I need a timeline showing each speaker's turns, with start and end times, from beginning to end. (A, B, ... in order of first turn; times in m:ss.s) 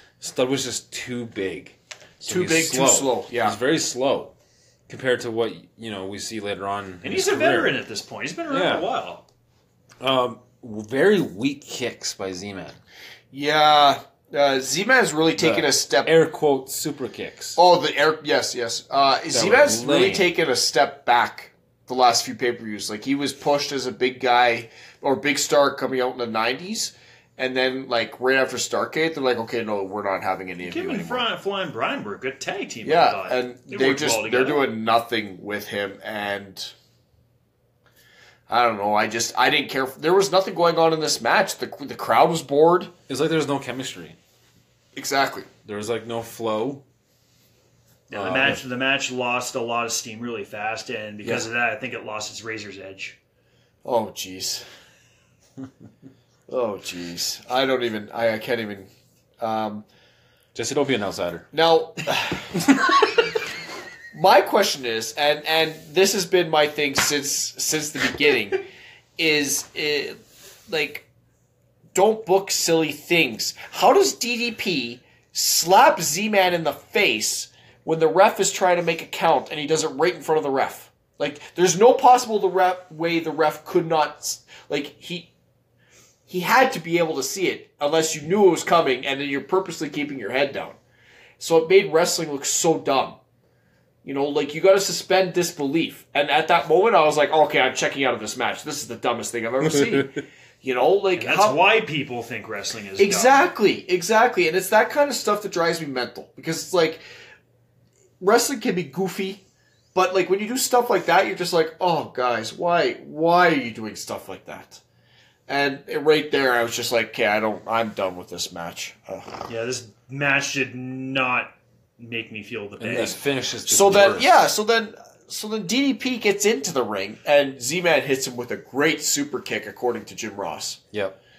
0:00.2-0:04.3 A
0:02.2-0:03.6 B
0:04.9-0:07.8 A
0:07.0-0:09.2 C
0:08.5-0:08.9 A
0:10.0-0:12.8 A
0:13.3-0:16.1 B
0:15.4-0:17.6 A
0:17.6-0:31.3 B
0:19.3-0:20.3 A
0:30.6-0:34.7 C
0:32.8-0:36.7 B
0:38.5-0:42.9 B
0:43.1-0:44.2 A
0:45.0-0:45.5 B
0:45.6-0:46.8 A
0:48.1-0:53.2 C
0:48.2-0:48.6 A
0:53.8-0:54.6 B
0:56.5-0:59.8 B
1:00.6-1:01.5 A
1:01.5-1:02.8 B
1:04.1-1:08.6 B
1:09.2-1:11.0 B
1:11.9-1:25.3 B
1:26.3-1:30.8 B
1:31.4-1:33.2 B
1:34.0-1:41.6 B
1:41.2-1:43.5 C
1:43.0-1:47.0 B
1:48.2-1:49.4 B
1:50.0-1:54.8 B
1:55.5-1:59.4 B
1:59.5-2:03.2 C
2:02.8-2:04.4 A
2:03.7-2:10.8 B